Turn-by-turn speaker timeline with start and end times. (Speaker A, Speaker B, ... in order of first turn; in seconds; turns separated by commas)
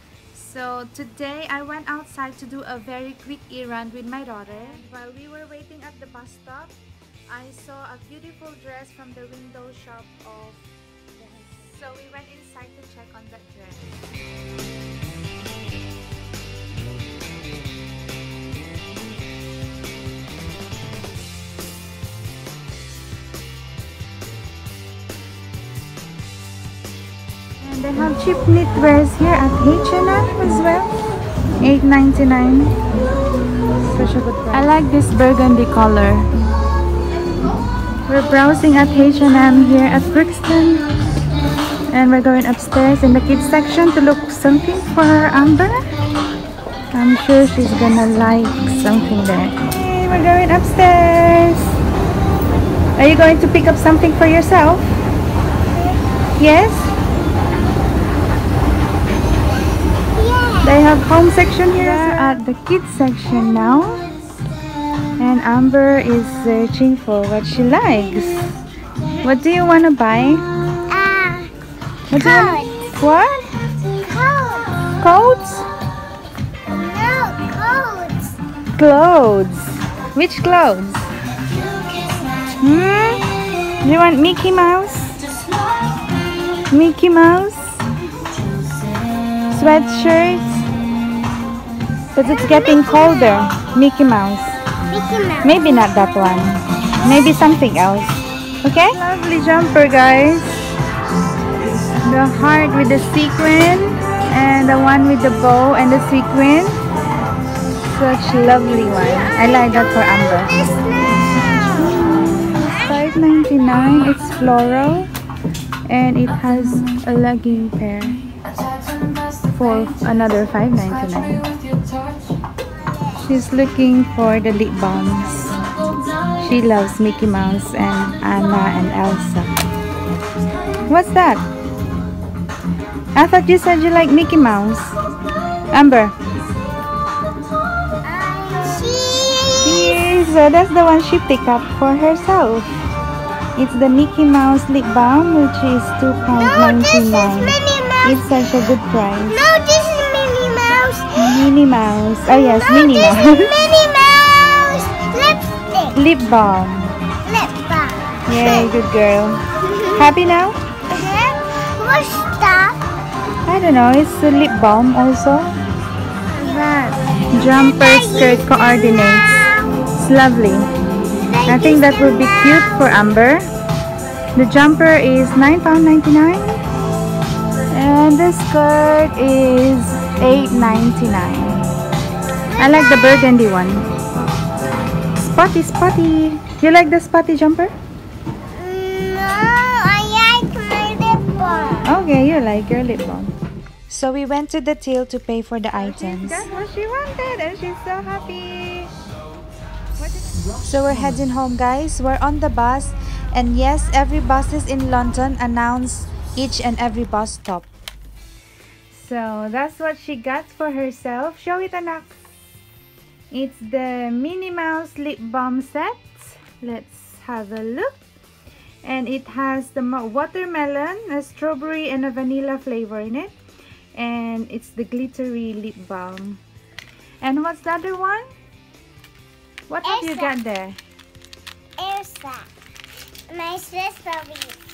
Speaker A: 0.3-6.8, Speaker A: 7.3-10.6, Speaker A: 11.2-14.0, Speaker A: 27.6-30.9, Speaker A: 31.6-32.8, Speaker A: 33.9-36.3, Speaker A: 38.1-40.9, Speaker A: 41.9-45.9, Speaker A: 46.9-51.8, Speaker A: 53.0-55.0, Speaker B: 55.8-56.1, Speaker A: 56.4-57.0, Speaker B: 60.1-61.0, Speaker A: 60.6-64.1, Speaker B: 61.7-62.1, Speaker A: 65.2-68.6, Speaker A: 69.2-70.5, Speaker B: 70.9-71.5, Speaker A: 72.1-73.5, Speaker B: 72.1-72.8, Speaker B: 74.0-74.8, Speaker A: 75.0-75.7, Speaker B: 76.7-78.4, Speaker A: 78.8-81.1, Speaker A: 82.6-83.3, Speaker A: 83.8-85.2, Speaker A: 86.7-87.8, Speaker A: 89.5-90.6, Speaker A: 92.2-94.6, Speaker B: 92.2-93.5, Speaker B: 94.9-95.6, Speaker A: 95.4-100.6, Speaker A: 102.0-106.8, Speaker A: 107.9-110.6, Speaker B: 109.0-112.1, Speaker A: 111.8-115.1, Speaker A: 115.9-118.4, Speaker A: 119.5-121.5, Speaker A: 123.1-125.6, Speaker A: 126.4-129.6, Speaker A: 130.9-131.4, Speaker A: 133.2-135.0, Speaker A: 135.7-136.2, Speaker B: 138.0-140.1, Speaker A: 139.6-142.8, Speaker A: 143.6-149.4, Speaker B: 146.3-148.4, Speaker B: 149.2-151.4, Speaker A: 151.2-153.6, Speaker B: 152.2-155.9, Speaker A: 155.9-157.0, Speaker B: 157.2-158.8, Speaker A: 158.3-160.6, Speaker B: 159.6-160.2, Speaker B: 160.9-162.8, Speaker A: 163.5-165.6, Speaker A: 166.3-169.4, Speaker B: 167.6-169.8, Speaker A: 169.9-170.7, Speaker B: 171.2-172.8, Speaker A: 171.5-173.5, Speaker A: 174.3-176.6, Speaker A: 177.7-181.7, Speaker B: 182.5-183.4, Speaker A: 182.6-183.9, Speaker A: 185.2-187.7, Speaker B: 188.6-191.9, Speaker A: 191.8-193.3, Speaker A: 193.9-198.9, Speaker A: 200.0-207.7, Speaker A: 208.9-212.2, Speaker A: 213.3-218.0, Speaker A: 218.8-223.3, Speaker A: 223.9-226.4, Speaker A: 227.2-228.3, Speaker A: 229.7-230.8, Speaker B: 229.8-230.4, Speaker B: 231.8-232.5, Speaker B: 233.3-234.6